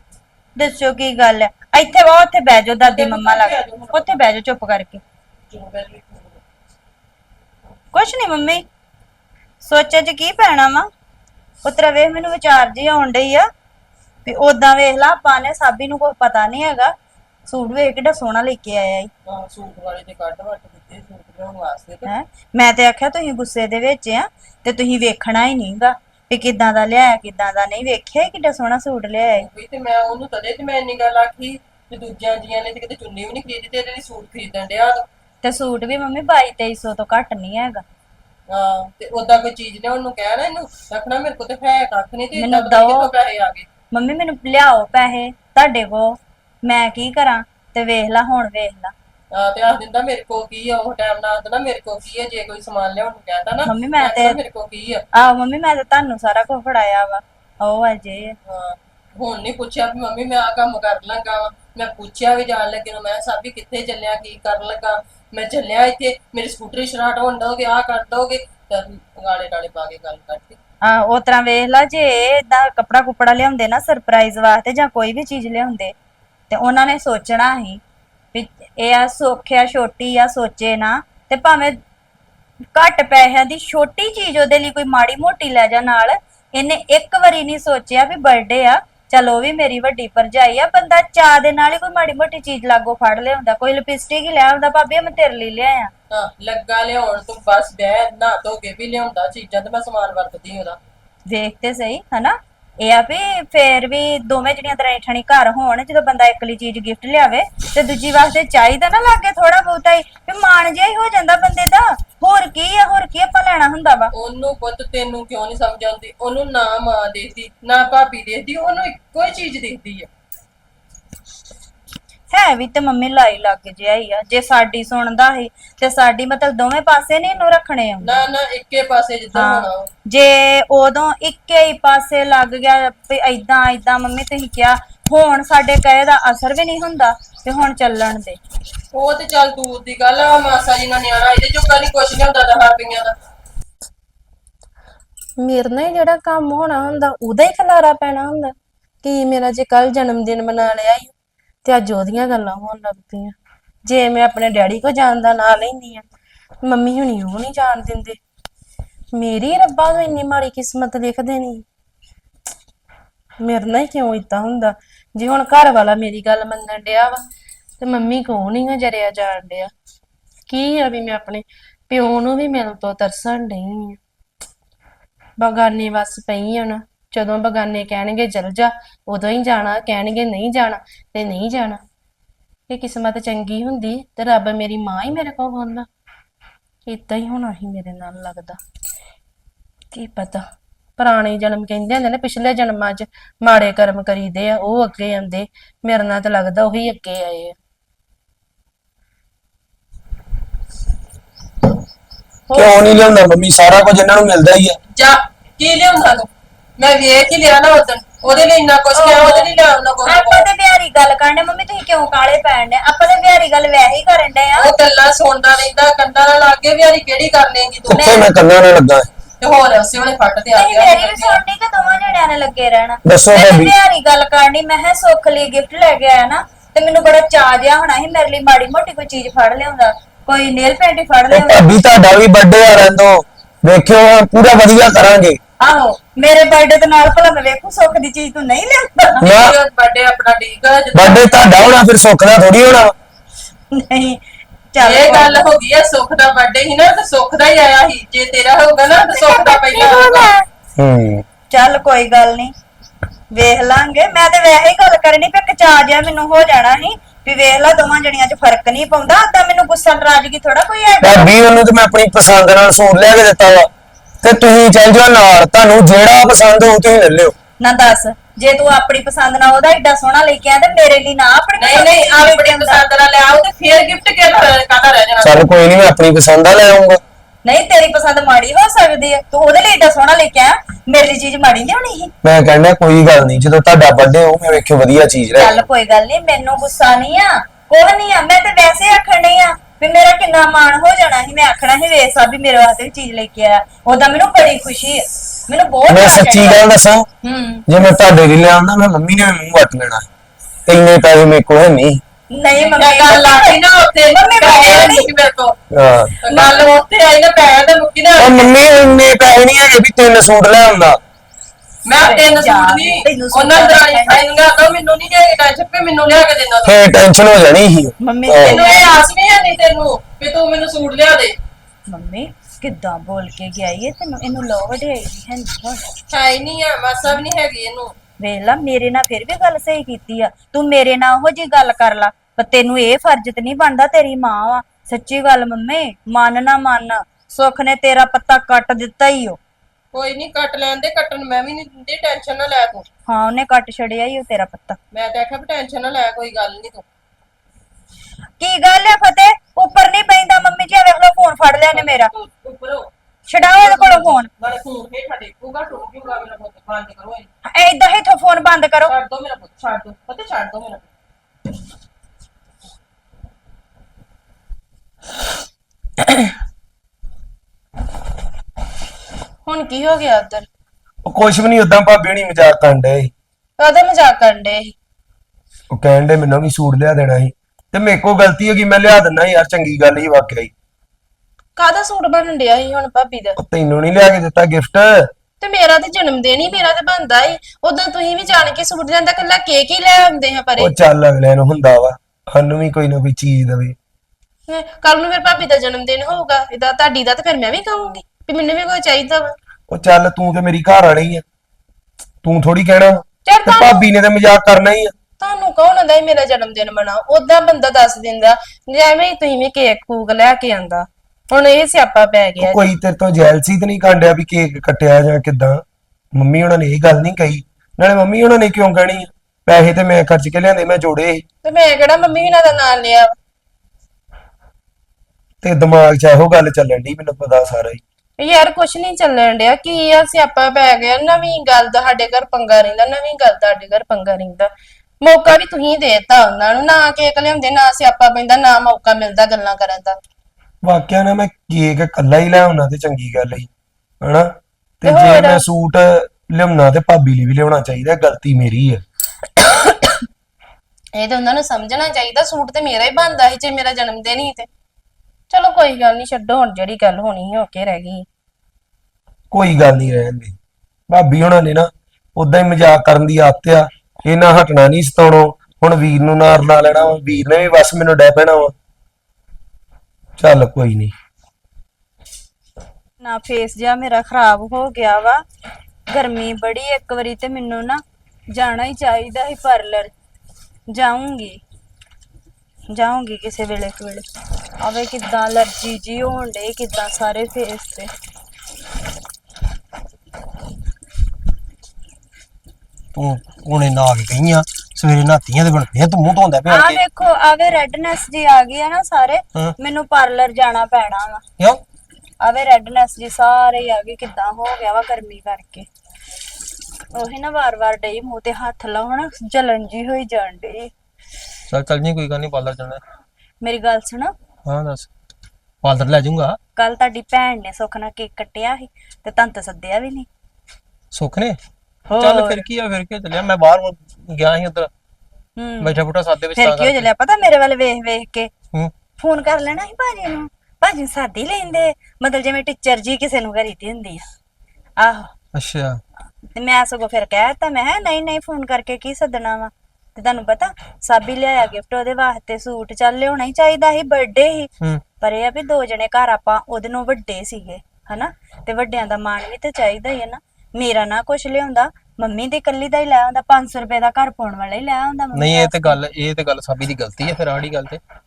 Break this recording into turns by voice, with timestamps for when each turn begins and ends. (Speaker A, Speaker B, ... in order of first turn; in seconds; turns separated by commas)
Speaker A: 0.6-5.0, Speaker B: 2.8-4.2, Speaker B: 5.5-6.4, Speaker A: 7.9-8.7, Speaker A: 9.6-10.9, Speaker A: 11.6-13.5, Speaker A: 14.2-16.9, Speaker A: 17.5-19.1, Speaker B: 19.3-22.1, Speaker A: 22.1-29.5, Speaker B: 29.2-35.0, Speaker A: 35.4-37.8, Speaker B: 38.5-43.7, Speaker A: 42.3-43.1, Speaker A: 43.9-48.9, Speaker B: 49.3-55.0, Speaker A: 53.6-54.4, Speaker A: 55.1-58.4, Speaker B: 58.5-70.6, Speaker A: 70.8-76.0, Speaker A: 76.5-77.8, Speaker A: 78.3-81.8, Speaker A: 82.8-95.9, Speaker B: 96.1-100.8, Speaker A: 101.3-114.1, Speaker B: 114.1-120.1, Speaker A: 122.3-128.2, Speaker B: 128.0-129.9, Speaker A: 129.3-138.4, Speaker B: 138.9-143.1, Speaker C: 145.4-151.1, Speaker C: 151.7-153.3, Speaker C: 153.8-156.1, Speaker C: 156.6-158.2, Speaker C: 159.1-161.7, Speaker C: 163.4-167.2, Speaker C: 167.8-169.7, Speaker C: 170.5-174.0, Speaker C: 175.4-181.8, Speaker C: 182.7-185.9, Speaker C: 186.9-188.6, Speaker C: 189.9-190.4, Speaker C: 191.0-197.6, Speaker D: 202.5-204.8, Speaker B: 204.9-210.5, Speaker A: 208.9-209.5, Speaker A: 210.1-214.7, Speaker B: 214.6-218.2, Speaker D: 217.9-219.1, Speaker A: 217.9-218.3, Speaker B: 219.4-221.4, Speaker A: 220.5-231.7, Speaker D: 223.1-223.8, Speaker D: 231.3-235.4, Speaker A: 235.6-239.2, Speaker B: 239.2-241.5, Speaker D: 239.2-239.6, Speaker D: 240.9-242.9, Speaker A: 243.7-244.2, Speaker A: 244.7-245.4, Speaker B: 244.8-250.3, Speaker A: 249.1-250.5, Speaker D: 250.8-251.2, Speaker A: 251.5-252.5, Speaker A: 253.3-261.3, Speaker D: 261.0-263.7, Speaker D: 264.2-267.4, Speaker A: 267.6-272.8, Speaker B: 271.6-275.5, Speaker D: 275.2-277.0, Speaker A: 277.4-282.1, Speaker D: 282.2-285.7, Speaker A: 285.4-296.6, Speaker D: 295.9-297.1, Speaker D: 297.7-300.1, Speaker D: 300.7-302.0, Speaker A: 302.3-303.6, Speaker B: 302.6-305.6, Speaker A: 304.1-305.1, Speaker D: 305.7-306.1, Speaker B: 306.2-308.5, Speaker A: 306.3-306.6, Speaker D: 308.2-311.0, Speaker B: 311.9-316.8, Speaker A: 312.0-314.3, Speaker D: 316.6-318.6, Speaker A: 318.0-319.0, Speaker B: 318.5-321.4, Speaker A: 321.9-325.9, Speaker B: 326.1-327.9, Speaker A: 328.2-339.4, Speaker B: 339.9-342.9, Speaker A: 343.1-344.8, Speaker B: 344.9-346.9, Speaker A: 348.4-352.1, Speaker B: 351.7-352.9, Speaker A: 353.3-354.3, Speaker B: 353.4-357.3, Speaker A: 357.4-358.9, Speaker B: 358.9-360.9, Speaker C: 369.5-370.5, Speaker D: 371.1-373.1, Speaker C: 373.6-374.7, Speaker D: 375.7-380.5, Speaker C: 381.6-383.4, Speaker D: 383.4-385.1, Speaker C: 385.4-390.7, Speaker D: 390.6-393.8, Speaker C: 394.5-399.3, Speaker D: 399.7-401.2, Speaker D: 402.2-404.9, Speaker C: 403.3-403.9, Speaker C: 405.2-412.7, Speaker D: 412.4-415.6, Speaker D: 416.1-421.2, Speaker C: 421.4-423.1, Speaker D: 425.4-427.8, Speaker C: 428.2-434.5, Speaker C: 435.0-440.0, Speaker D: 440.6-443.5, Speaker D: 444.0-444.3, Speaker D: 444.8-448.8, Speaker C: 444.9-445.4, Speaker C: 450.9-454.5, Speaker C: 455.3-458.1, Speaker D: 459.3-460.4, Speaker D: 460.9-468.5, Speaker D: 470.2-470.9, Speaker A: 473.0-475.2, Speaker A: 475.9-479.9, Speaker A: 480.7-481.4, Speaker A: 482.7-484.1, Speaker A: 484.6-487.9, Speaker E: 492.9-496.8, Speaker A: 496.5-501.2, Speaker A: 502.2-505.7, Speaker A: 506.9-510.7, Speaker E: 511.5-512.8, Speaker A: 513.4-514.1, Speaker E: 514.5-514.9, Speaker E: 515.6-516.4, Speaker A: 516.6-520.1, Speaker E: 520.9-521.4, Speaker E: 521.9-524.7, Speaker A: 521.9-522.5, Speaker A: 525.4-525.8, Speaker E: 525.6-526.9, Speaker A: 526.4-528.3, Speaker A: 529.0-534.0, Speaker A: 534.8-535.1, Speaker E: 535.3-535.8, Speaker A: 536.4-555.8, Speaker E: 555.1-557.8